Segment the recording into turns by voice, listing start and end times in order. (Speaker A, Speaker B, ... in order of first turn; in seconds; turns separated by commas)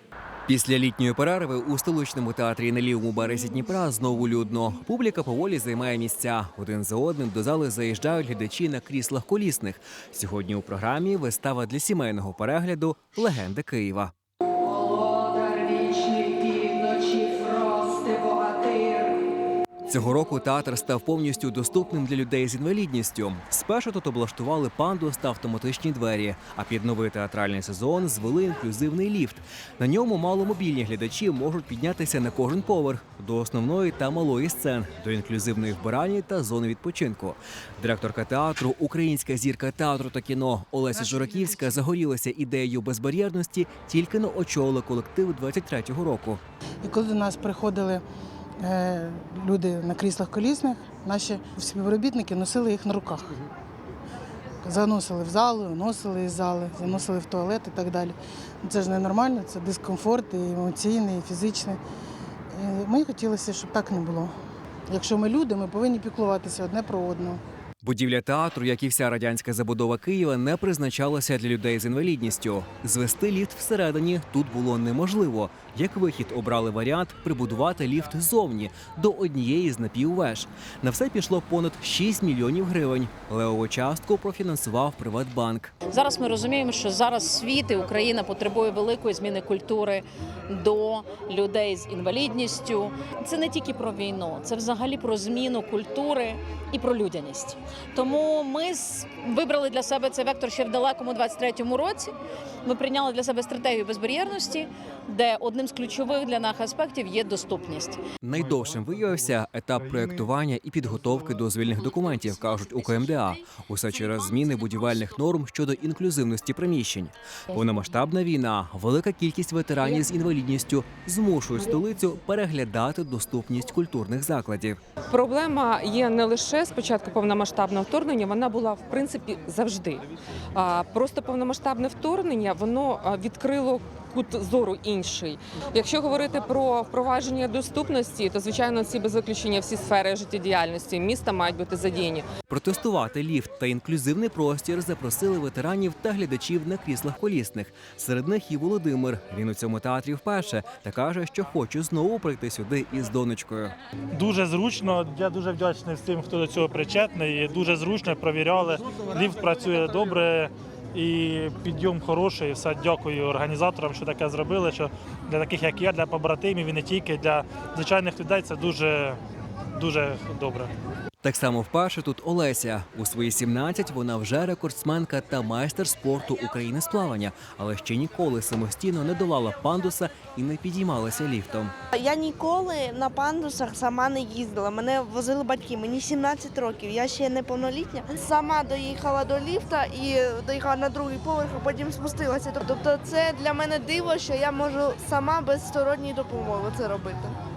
Speaker A: 0.5-14.1, Speaker B: 14.7-19.0, Speaker A: 19.9-46.4, Speaker C: 46.8-48.0, Speaker C: 48.6-53.2, Speaker C: 54.6-61.8, Speaker C: 62.5-64.3, Speaker C: 64.9-67.4, Speaker A: 67.8-85.7, Speaker B: 85.9-102.1, Speaker B: 102.7-108.0, Speaker A: 108.2-124.8, Speaker D: 125.1-130.0, Speaker D: 130.5-142.3, Speaker A: 142.5-153.7, Speaker E: 154.1-169.2, Speaker E: 169.8-170.7, Speaker A: 171.2-181.7, Speaker F: 181.9-197.3